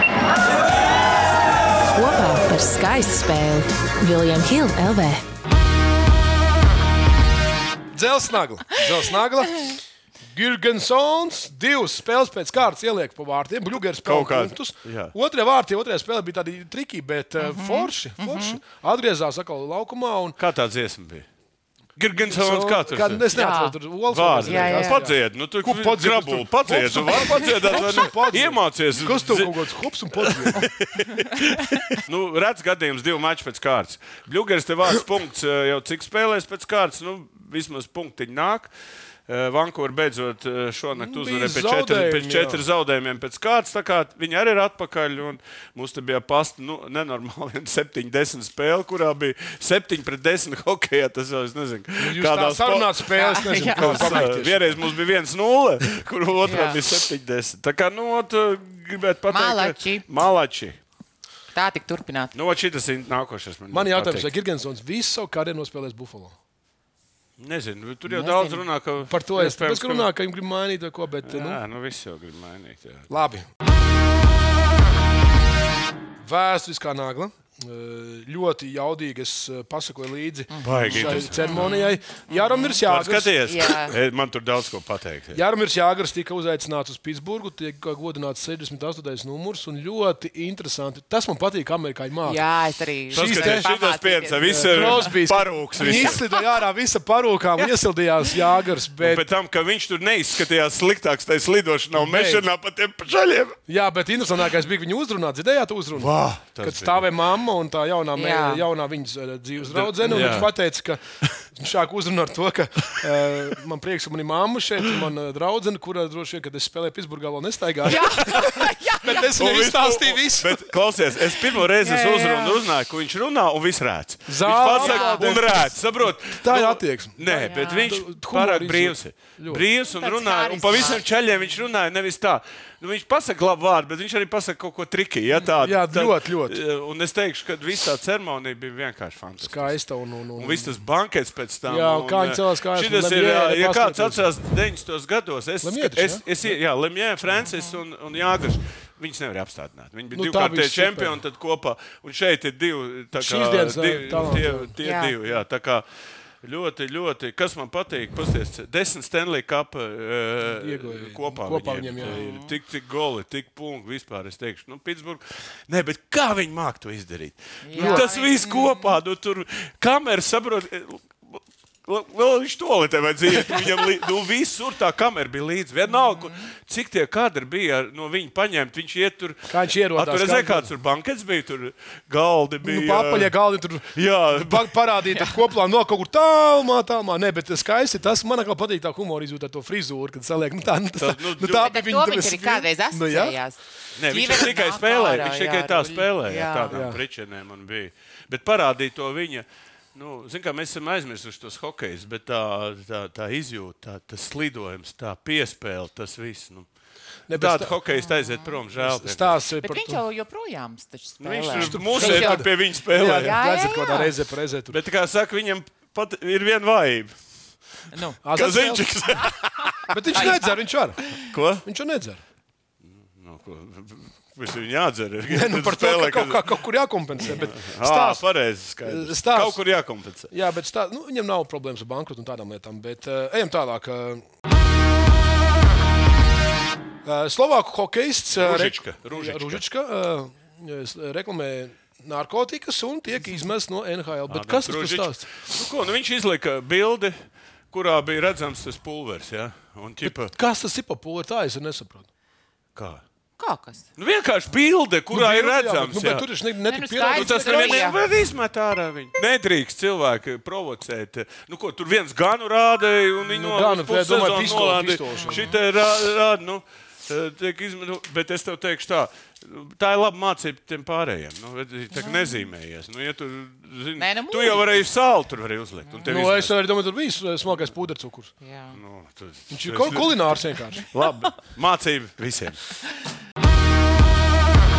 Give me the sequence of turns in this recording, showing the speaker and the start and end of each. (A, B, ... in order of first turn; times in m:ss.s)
0:01.9-0:05.2 A
0:07.9-0:20.4 B
0:14.0-0:15.1 C
0:17.4-0:18.6 D
0:20.4-0:21.2 C
0:22.0-0:23.2 C
0:22.2-0:30.7 B
0:23.3-0:23.8 D
0:24.1-0:38.7 C
0:24.4-0:25.0 D
0:31.1-0:31.3 D
0:39.3-0:53.0 C
0:41.0-0:42.6 B
0:52.0-0:54.8 B
0:53.1-0:54.3 D
0:53.7-1:00.8 C
0:56.4-0:56.8 D
0:59.3-1:00.0 D
1:01.5-1:02.3 D
1:02.3-1:04.3 C
1:03.7-1:06.3 B
1:07.4-1:10.1 C
1:08.1-1:08.6 D
1:09.1-1:11.6 B
1:11.2-1:13.1 C
1:13.1-1:13.5 B
1:16.2-1:23.3 B
1:20.5-1:22.8 D
1:20.6-1:21.7 C
1:22.8-1:25.4 C
1:23.4-1:24.0 D
1:25.3-1:32.4 B
1:32.2-1:35.1 D
1:33.1-1:33.7 B
1:33.1-1:36.2 C
1:34.5-1:39.3 B
1:35.8-1:36.4 D
1:39.0-1:43.6 C
1:42.0-1:42.4 B
1:43.7-1:51.0 B
1:45.9-1:47.1 C
1:48.1-1:48.6 D
1:49.6-1:50.5 C
1:51.5-2:00.7 B
1:57.8-1:59.3 D
1:59.2-2:19.8 C
2:01.5-2:02.6 D
2:04.3-2:09.6 B
2:04.7-2:05.4 D
2:07.3-2:07.9 D
2:09.8-2:11.0 D
2:15.6-2:16.6 B
2:19.4-2:20.7 B
2:20.4-2:35.8 C
2:21.6-2:24.2 B
2:25.6-2:26.5 B
2:27.4-2:27.8 D
2:30.1-2:31.2 B
2:33.2-2:34.7 B
2:34.8-2:35.3 D
2:36.4-3:03.3 C
2:40.4-2:42.2 B
2:42.0-2:42.5 D
2:47.6-2:49.0 D
2:47.8-2:48.1 B
2:55.9-2:56.4 D
2:59.5-3:00.7 B
3:02.6-3:13.4 B
3:03.9-3:04.8 C
3:11.0-3:11.7 C
3:11.6-3:16.8 D
3:14.0-3:26.7 C
3:16.7-3:17.0 B
3:27.3-3:27.8 B
3:27.3-3:29.4 C
3:27.9-3:28.6 D
3:28.8-3:30.0 B
3:29.6-3:32.5 D
3:31.2-3:33.4 C
3:31.5-3:34.8 B
3:33.1-3:34.1 D
3:34.7-3:37.2 C
3:37.9-3:38.2 D
3:38.2-3:38.8 B
3:38.3-3:40.3 C
3:39.9-3:42.2 B
3:40.1-3:40.4 D
3:41.2-3:41.6 C
3:43.1-3:46.5 C
3:45.3-3:48.2 B
3:47.2-3:50.3 C
3:48.8-3:49.6 B
3:50.3-3:54.2 B
3:57.0-4:05.3 B
3:58.3-3:59.6 C
4:04.3-4:07.2 C
4:07.7-4:10.3 C
4:10.0-4:12.1 B
4:12.8-4:13.0 C
4:13.4-4:13.9 D
4:14.0-4:16.3 C
4:15.1-4:17.9 B
4:16.7-4:18.0 D
4:17.1-4:36.6 C
4:23.2-4:25.5 B
4:25.1-4:25.6 D
4:31.9-4:32.5 D
4:34.0-4:34.7 D
4:36.1-4:38.3 B
4:38.4-4:38.8 D
4:38.7-4:42.6 C
4:39.5-4:40.8 B